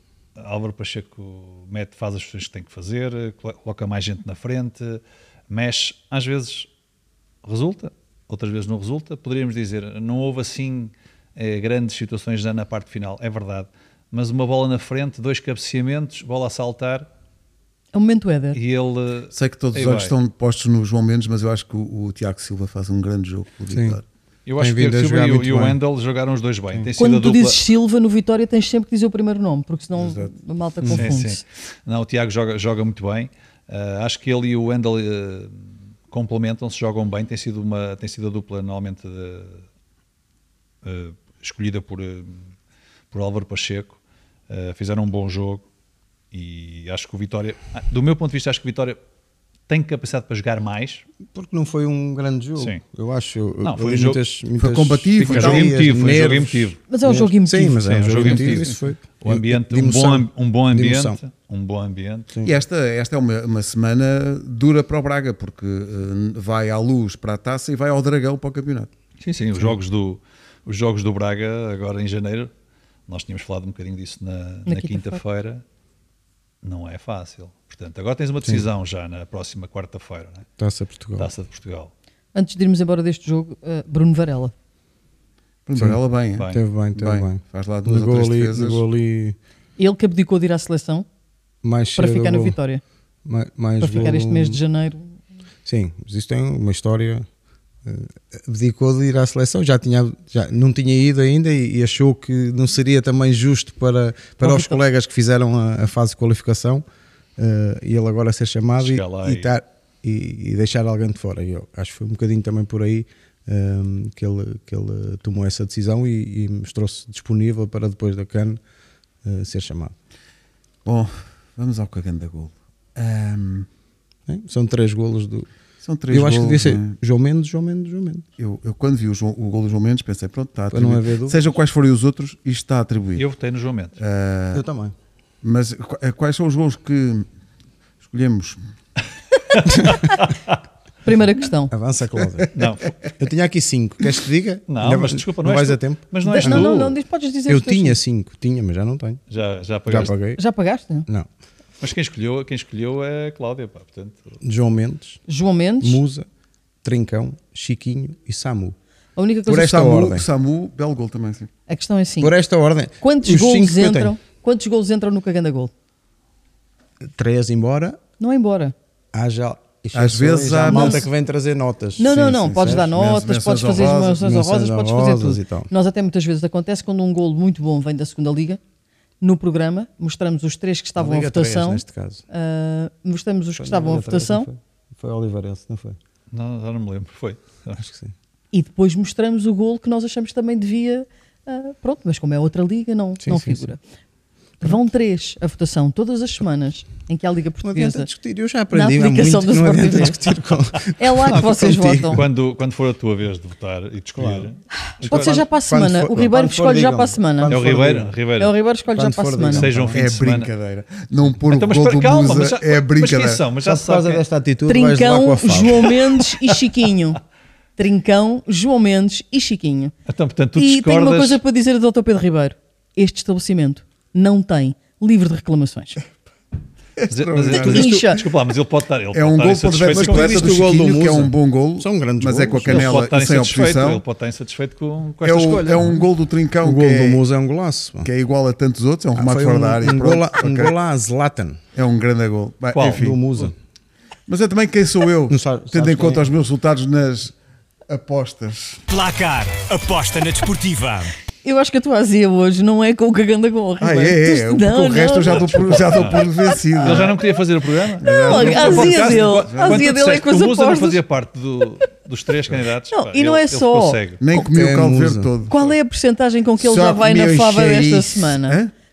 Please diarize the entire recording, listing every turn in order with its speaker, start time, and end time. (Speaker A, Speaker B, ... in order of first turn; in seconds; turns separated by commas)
Speaker A: 0.4-6.7, Speaker A: 7.4-17.1, Speaker B: 17.9-18.6, Speaker A: 18.5-20.1, Speaker C: 19.3-24.0, Speaker D: 23.7-24.0, Speaker A: 24.5-27.6, Speaker D: 24.6-25.8, Speaker B: 27.0-31.4, Speaker C: 30.0-30.3, Speaker D: 30.9-31.1, Speaker A: 30.9-39.6, Speaker A: 40.8-42.4, Speaker A: 43.1-45.6, Speaker A: 46.3-49.0, Speaker A: 49.7-51.0, Speaker D: 51.3-61.2, Speaker A: 53.6-54.2, Speaker C: 54.6-56.1, Speaker A: 55.2-56.8, Speaker B: 56.9-58.3, Speaker A: 57.8-62.3, Speaker C: 58.3-58.7, Speaker C: 62.4-68.9, Speaker A: 69.2-72.5, Speaker A: 73.1-75.6, Speaker B: 74.7-75.2, Speaker A: 76.6-80.5, Speaker D: 78.4-78.7, Speaker D: 80.6-81.3, Speaker A: 81.2-81.9, Speaker B: 82.3-84.5, Speaker C: 85.7-88.8, Speaker D: 85.8-89.4, Speaker A: 86.3-86.6, Speaker B: 89.8-91.1, Speaker D: 91.6-92.6, Speaker B: 92.0-92.8, Speaker D: 93.2-94.6, Speaker B: 93.8-95.2, Speaker D: 95.7-97.3, Speaker D: 97.8-106.8, Speaker B: 104.4-104.8, Speaker D: 107.4-118.6, Speaker A: 108.8-109.5, Speaker D: 119.2-120.0, Speaker C: 120.8-123.7, Speaker D: 124.3-125.5, Speaker C: 125.8-127.0, Speaker D: 126.1-128.2, Speaker C: 128.4-133.3, Speaker D: 130.7-131.4, Speaker A: 133.2-134.0, Speaker C: 134.0-134.7, Speaker D: 134.5-134.9, Speaker C: 135.4-137.3, Speaker C: 138.0-138.6, Speaker A: 139.5-140.6, Speaker B: 141.0-141.7, Speaker D: 141.7-142.5, Speaker A: 142.5-143.0, Speaker D: 143.2-146.7, Speaker A: 144.7-147.0, Speaker B: 146.2-148.0, Speaker D: 147.5-149.2, Speaker A: 149.3-150.2, Speaker D: 149.9-150.4, Speaker B: 150.3-151.1, Speaker A: 151.8-154.4, Speaker D: 154.4-155.2, Speaker B: 155.3-156.0, Speaker D: 155.8-156.3, Speaker D: 156.8-158.8, Speaker B: 159.2-159.9, Speaker D: 159.5-160.3, Speaker C: 159.5-161.5, Speaker B: 161.7-162.3, Speaker D: 162.2-164.2, Speaker B: 163.0-165.7, Speaker D: 167.0-168.0, Speaker B: 168.2-168.7, Speaker D: 169.1-172.9, Speaker C: 169.9-171.1, Speaker B: 170.7-171.0, Speaker B: 172.0-178.6, Speaker C: 172.1-174.2, Speaker D: 174.2-175.7, Speaker B: 179.2-184.5, Speaker D: 181.0-182.2, Speaker D: 183.6-186.0, Speaker A: 186.3-187.8, Speaker D: 187.8-188.1, Speaker B: 188.5-193.8, Speaker D: 193.2-193.7, Speaker B: 194.6-198.1, Speaker D: 197.6-202.3, Speaker B: 198.7-202.2, Speaker A: 202.0-205.4, Speaker D: 204.2-204.5, Speaker B: 204.9-207.6, Speaker D: 205.0-208.2, Speaker A: 207.5-208.5, Speaker B: 208.4-209.7, Speaker D: 208.9-210.0, Speaker A: 209.5-210.5, Speaker C: 209.9-213.4, Speaker A: 211.5-214.2, Speaker D: 213.6-216.0, Speaker B: 214.7-217.2, Speaker B: 217.8-219.9, Speaker A: 220.1-221.4, Speaker B: 220.6-226.0, Speaker C: 227.0-228.0, Speaker A: 227.1-230.8, Speaker B: 227.5-228.2, Speaker C: 229.1-234.0, Speaker D: 229.9-233.0, Speaker A: 232.7-236.0, Speaker C: 235.2-237.2, Speaker D: 235.5-236.1, Speaker D: 236.6-238.1, Speaker C: 238.0-240.7, Speaker D: 239.1-241.6, Speaker C: 241.8-243.2, Speaker A: 242.7-243.2, Speaker D: 242.8-243.5, Speaker C: 244.3-247.4, Speaker D: 245.3-246.3, Speaker C: 247.9-248.8, Speaker E: 248.9-251.1, Speaker B: 251.4-257.1, Speaker C: 253.8-257.2, Speaker A: 255.2-256.3, Speaker A: 256.8-264.2, Speaker C: 258.0-259.8, Speaker B: 258.0-261.0, Speaker B: 262.9-264.0, Speaker C: 264.2-265.6, Speaker D: 264.3-265.3, Speaker B: 265.5-268.6, Speaker C: 266.6-268.7